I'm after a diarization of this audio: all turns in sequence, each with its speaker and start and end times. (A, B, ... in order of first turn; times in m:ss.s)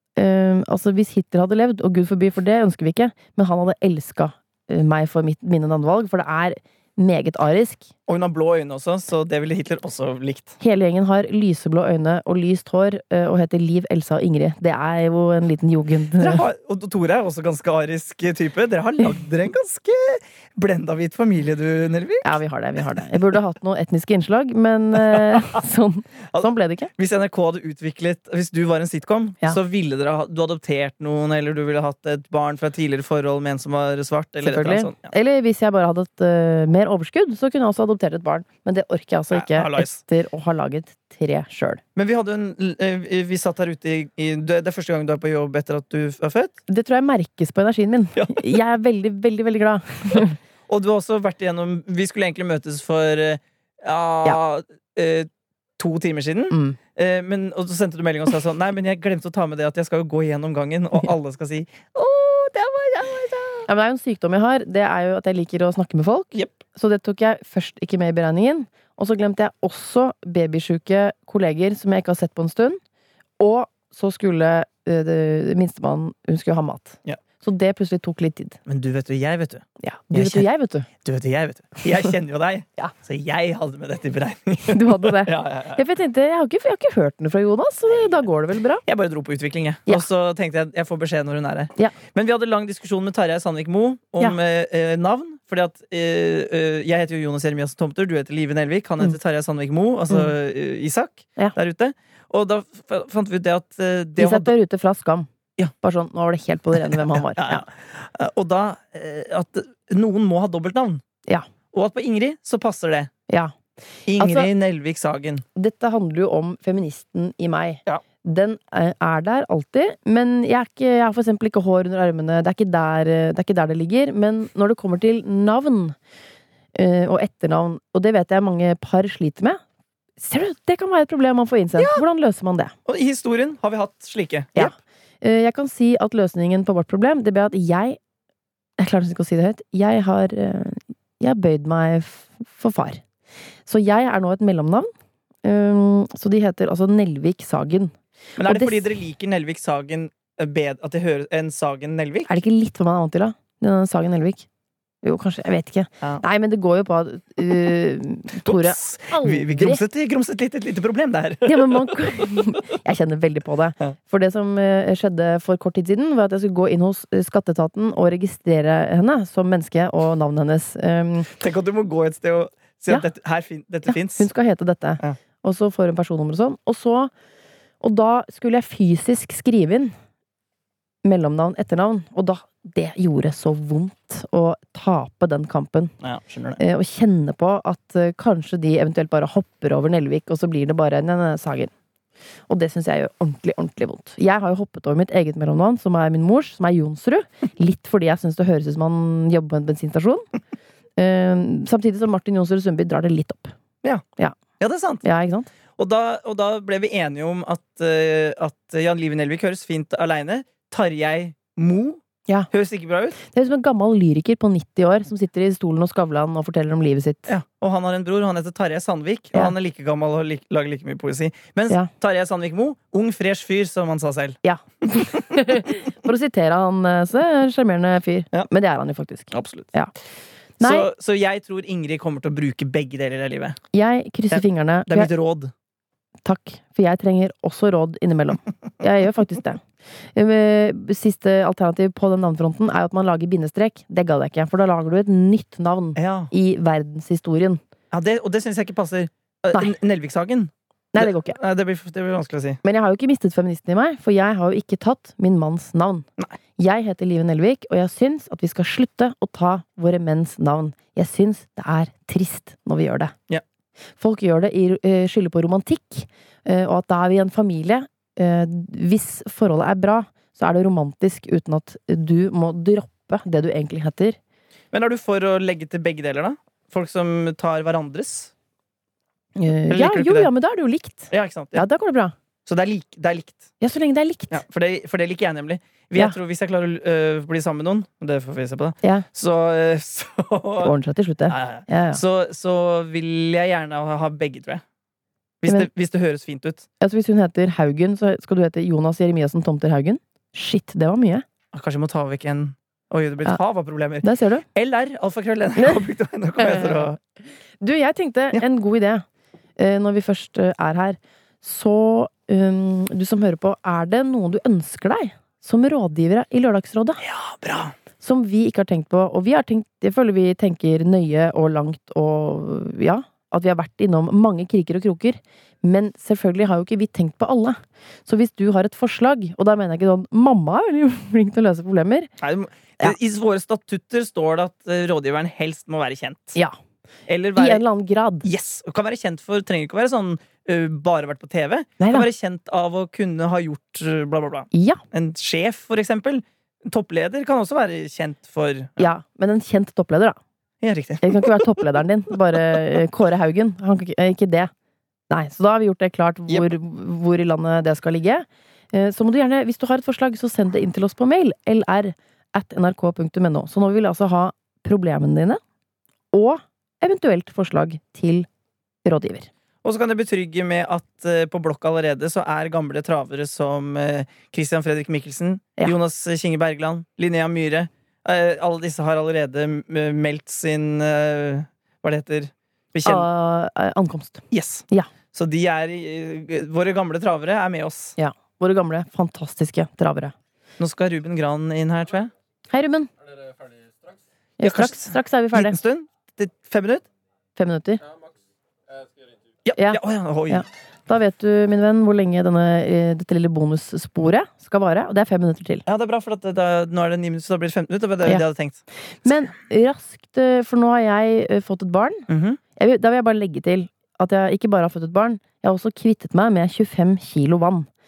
0:00.2-0:07.9 A
0:08.1-0:10.6 B
0:10.6-0:16.5 A
0:16.2-0:22.4 B
0:22.2-0:26.9 A
0:25.0-0:25.6 B
0:26.3-0:35.1 B
0:34.4-0:41.8 A
0:39.3-0:40.0 B
0:42.0-0:46.6 B
0:46.7-0:50.4 A
0:48.2-0:48.5 B
0:50.2-1:03.7 B
0:56.5-0:56.8 A
1:03.7-1:12.8 A
1:13.4-1:18.6 A
1:18.7-1:20.5 B
1:19.8-1:20.9 A
1:21.0-1:25.8 B
1:24.7-1:28.8 A
1:28.8-1:44.5 B
1:44.2-1:45.3 A
1:45.8-1:47.7 A
1:47.0-1:51.0 B
1:51.7-1:53.1 B
1:53.3-1:53.5 A
1:54.1-1:55.4 B
1:54.2-1:54.5 A
1:55.6-2:06.0 A
2:06.8-2:09.6 A
2:10.2-2:12.7 A
2:11.8-2:12.0 B
2:12.9-2:14.8 B
2:14.6-2:18.0 A
2:18.8-2:23.0 A
2:23.7-2:24.9 A
2:25.4-2:29.0 A
2:28.4-2:32.3 B
2:32.3-2:34.5 A
2:35.0-2:39.8 A
2:38.4-2:42.0 B
2:41.5-2:51.3 A
2:51.3-2:54.3 B
2:53.9-2:57.1 A
2:57.8-2:59.9 A
3:01.0-3:06.0 A
3:06.0-3:06.6 B
3:06.6-3:11.7 A
3:12.5-3:20.3 A
3:21.0-3:23.6 A
3:24.6-3:25.0 B
3:25.0-3:25.5 A
3:25.8-3:33.2 B
3:33.2-3:37.3 A
3:37.3-3:44.4 B
3:44.4-3:49.9 A
3:49.3-3:49.7 B
3:50.6-3:50.9 A
3:50.6-3:53.6 B
3:53.7-3:55.1 A
3:54.3-3:55.5 B
3:56.2-4:07.6 A
4:06.0-4:06.3 B
4:07.9-4:12.6 B
4:10.9-4:11.4 A
4:12.6-4:16.1 A
4:16.6-4:23.1 A
4:24.0-4:34.2 A
4:34.7-4:38.3 B
4:39.4-4:42.1 A
4:39.7-4:40.3 B
4:41.1-4:41.7 B
4:42.5-4:43.5 B
4:43.6-4:44.4 A
4:44.3-4:50.7 B
4:48.8-4:49.1 A
4:50.6-4:52.0 A
4:51.3-4:54.6 B
4:55.4-4:56.7 B
4:56.8-5:01.2 A
5:01.5-5:07.0 B
5:04.0-5:04.5 A
5:06.4-5:06.9 A
5:07.6-5:09.1 A
5:09.6-5:17.0 A
5:17.0-5:17.7 B
5:18.0-5:32.1 A
5:32.2-5:36.4 B
5:37.1-5:37.6 B
5:37.4-5:38.3 A
5:38.2-5:48.9 B
5:41.8-5:42.1 A
5:44.5-5:44.8 A
5:48.8-5:50.2 A
5:50.6-5:51.5 B
5:51.0-5:54.5 A
5:55.1-6:05.4 A
6:06.1-6:08.3 A
6:08.8-6:09.3 A
6:09.6-6:23.1 B
6:22.8-6:24.9 A
6:24.3-6:28.0 B
6:28.0-6:30.1 A
6:30.6-6:32.1 B
6:32.5-6:32.9 A
6:34.4-6:35.6 A
6:34.4-6:36.8 B
6:37.4-6:37.8 A
6:39.5-6:40.4 B
6:39.6-6:45.6 A
6:45.7-6:48.6 B
6:49.0-6:57.7 A
6:52.1-6:52.4 B